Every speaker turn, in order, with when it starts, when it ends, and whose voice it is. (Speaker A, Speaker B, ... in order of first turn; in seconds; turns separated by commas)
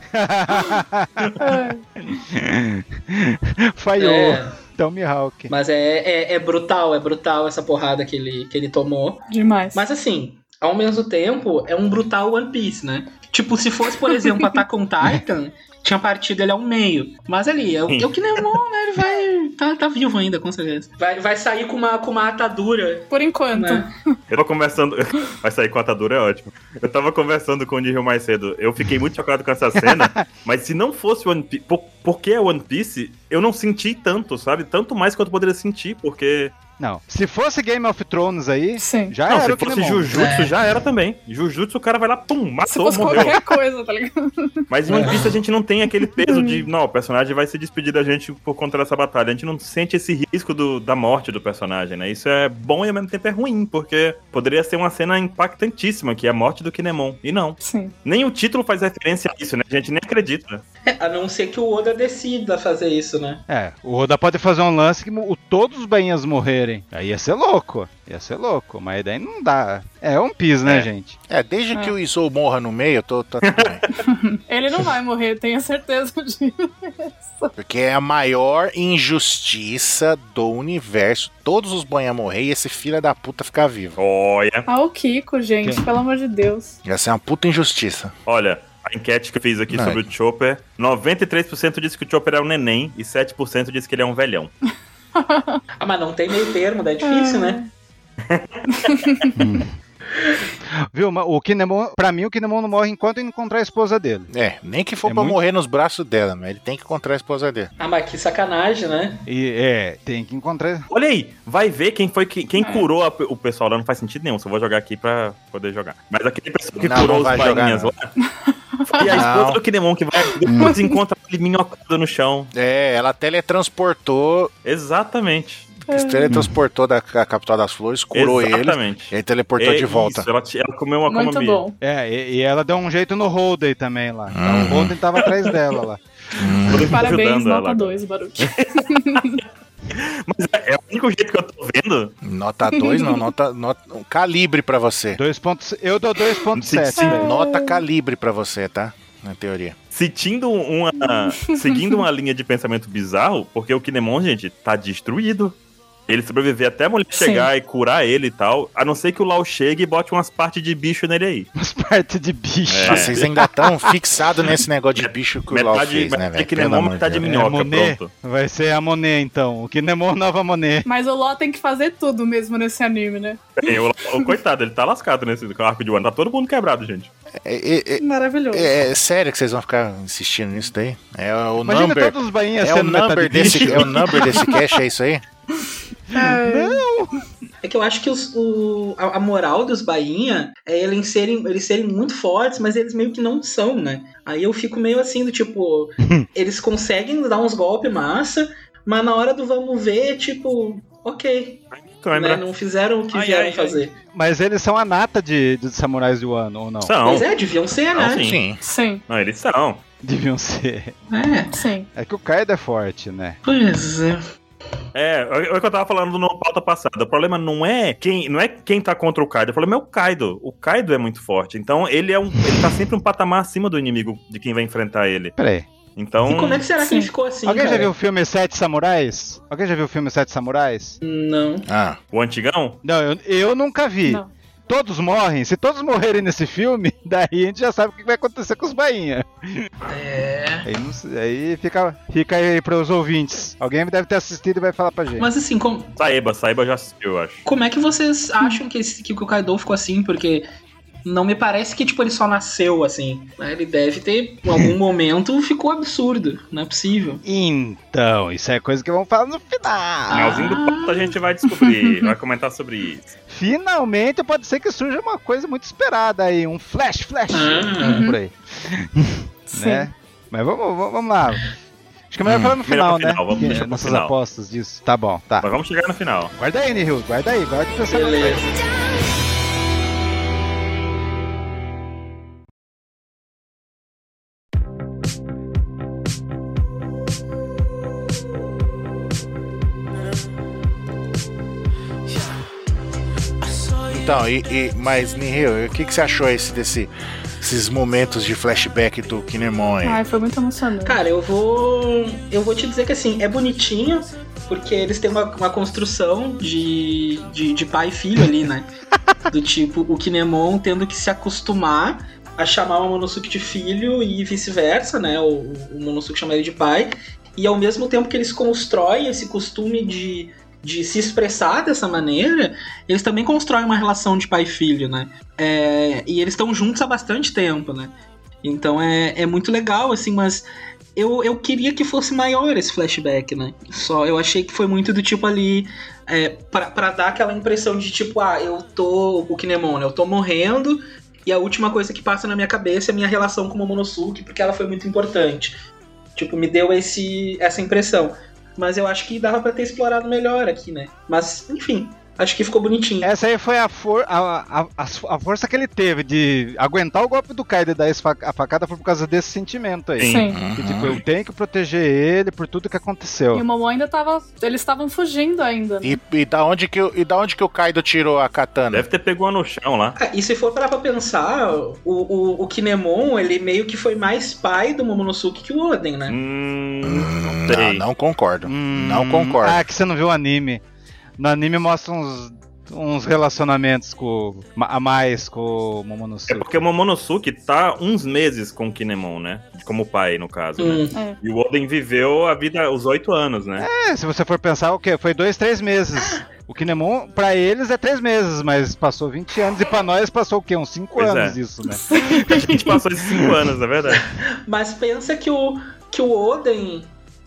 Speaker A: 0.1-5.5, Speaker B: 1.4-1.8, Speaker C: 4.0-4.6, Speaker C: 5.5-23.9, Speaker B: 9.3-9.8, Speaker B: 23.1-23.9, Speaker D: 24.3-36.5, Speaker A: 29.8-30.2, Speaker A: 36.8-40.3, Speaker B: 38.8-39.1, Speaker D: 39.3-43.4, Speaker C: 40.1-40.6, Speaker B: 42.7-44.5, Speaker D: 44.7-60.6, Speaker C: 44.9-45.4, Speaker B: 46.0-46.7, Speaker B: 57.6-57.9, Speaker C: 60.9-63.4, Speaker A: 63.5-71.2, Speaker E: 71.3-73.8, Speaker D: 73.5-73.8, Speaker B: 74.0-77.5, Speaker E: 77.6-84.0, Speaker D: 84.0-84.7, Speaker B: 84.7-86.8, Speaker E: 86.8-88.1, Speaker D: 88.3-94.5, Speaker E: 89.7-90.0, Speaker B: 95.1-95.6, Speaker C: 95.8-97.6, Speaker B: 97.0-97.7, Speaker D: 98.3-99.1, Speaker B: 98.8-99.3, Speaker A: 99.4-99.7, Speaker A: 100.9-104.3, Speaker E: 104.3-107.7, Speaker A: 105.0-105.4, Speaker C: 107.8-109.2, Speaker A: 109.3-110.9, Speaker D: 110.9-118.1, Speaker B: 112.6-112.9, Speaker E: 116.8-117.9, Speaker B: 118.5-119.3, Speaker D: 118.9-122.5, Speaker E: 119.1-119.6, Speaker A: 120.5-120.8, Speaker E: 122.5-124.5, Speaker D: 124.6-125.7, Speaker B: 125.9-126.3, Speaker E: 125.9-130.3, Speaker D: 128.1-131.6, Speaker B: 131.1-131.8, Speaker A: 131.8-136.0, Speaker E: 134.3-135.0, Speaker E: 136.4-137.0, Speaker D: 136.6-139.4, Speaker B: 136.9-139.4, Speaker D: 139.9-142.1, Speaker E: 142.2-145.2, Speaker B: 142.7-143.3, Speaker A: 145.2-147.3, Speaker D: 146.5-147.2, Speaker B: 147.0-147.8, Speaker E: 147.2-149.8, Speaker D: 149.9-155.6, Speaker B: 151.1-151.6, Speaker D: 156.1-161.5, Speaker B: 157.2-157.5, Speaker A: 161.6-163.9, Speaker D: 162.7-163.1, Speaker E: 162.9-167.3, Speaker D: 165.0-168.1, Speaker A: 167.2-170.9, Speaker B: 170.8-174.3, Speaker D: 173.6-177.1, Speaker E: 177.4-185.2, Speaker B: 178.0-178.7, Speaker A: 181.6-184.3, Speaker D: 183.4-184.3, Speaker B: 186.1-186.8, Speaker A: 186.1-187.2, Speaker C: 187.6-204.0, Speaker D: 201.7-202.4, Speaker D: 203.1-203.8, Speaker A: 204.1-206.9, Speaker D: 206.8-207.3, Speaker C: 207.0-208.3, Speaker D: 207.9-208.4, Speaker E: 208.0-208.6, Speaker B: 208.6-209.0, Speaker D: 209.1-209.8, Speaker A: 210.0-210.9, Speaker C: 211.1-211.6, Speaker B: 211.5-211.9, Speaker A: 212.0-213.4, Speaker C: 213.4-214.2, Speaker D: 214.9-225.3, Speaker A: 225.4-225.7, Speaker D: 226.0-226.6, Speaker C: 226.2-227.9, Speaker B: 226.8-227.1, Speaker A: 227.4-231.0, Speaker C: 231.0-231.7, Speaker E: 231.7-232.0, Speaker D: 232.1-232.8, Speaker A: 232.8-239.7, Speaker B: 234.1-234.3, Speaker C: 239.9-240.7, Speaker A: 240.6-245.3, Speaker C: 245.2-245.9, Speaker D: 246.0-247.5, Speaker C: 247.5-250.5, Speaker C: 251.1-257.2, Speaker A: 257.2-260.4, Speaker C: 260.1-261.1, Speaker D: 260.1-263.1, Speaker B: 261.6-262.1, Speaker A: 263.3-271.5, Speaker C: 267.3-268.1, Speaker B: 267.8-268.2, Speaker B: 269.5-269.9, Speaker A: 272.1-275.5, Speaker E: 272.2-272.6, Speaker D: 272.6-274.1, Speaker D: 275.4-276.3, Speaker A: 276.4-278.5, Speaker C: 277.9-278.6, Speaker E: 293.9-300.0, Speaker B: 299.8-301.0, Speaker C: 300.8-308.7, Speaker C: 309.3-345.6, Speaker C: 346.1-353.1, Speaker A: 353.0-363.4, Speaker D: 360.0-360.3, Speaker B: 360.1-360.4, Speaker E: 360.3-361.0, Speaker B: 363.3-366.0, Speaker E: 365.8-368.9, Speaker D: 368.7-370.0, Speaker C: 370.0-376.2, Speaker D: 376.1-377.8, Speaker E: 376.8-379.6, Speaker A: 378.5-380.6, Speaker A: 381.2-386.5, Speaker D: 386.3-393.7, Speaker C: 390.6-391.0, Speaker B: 390.9-391.2, Speaker A: 393.6-403.3, Speaker D: 401.0-401.4, Speaker B: 401.7-402.6, Speaker D: 402.1-404.1, Speaker C: 403.9-406.9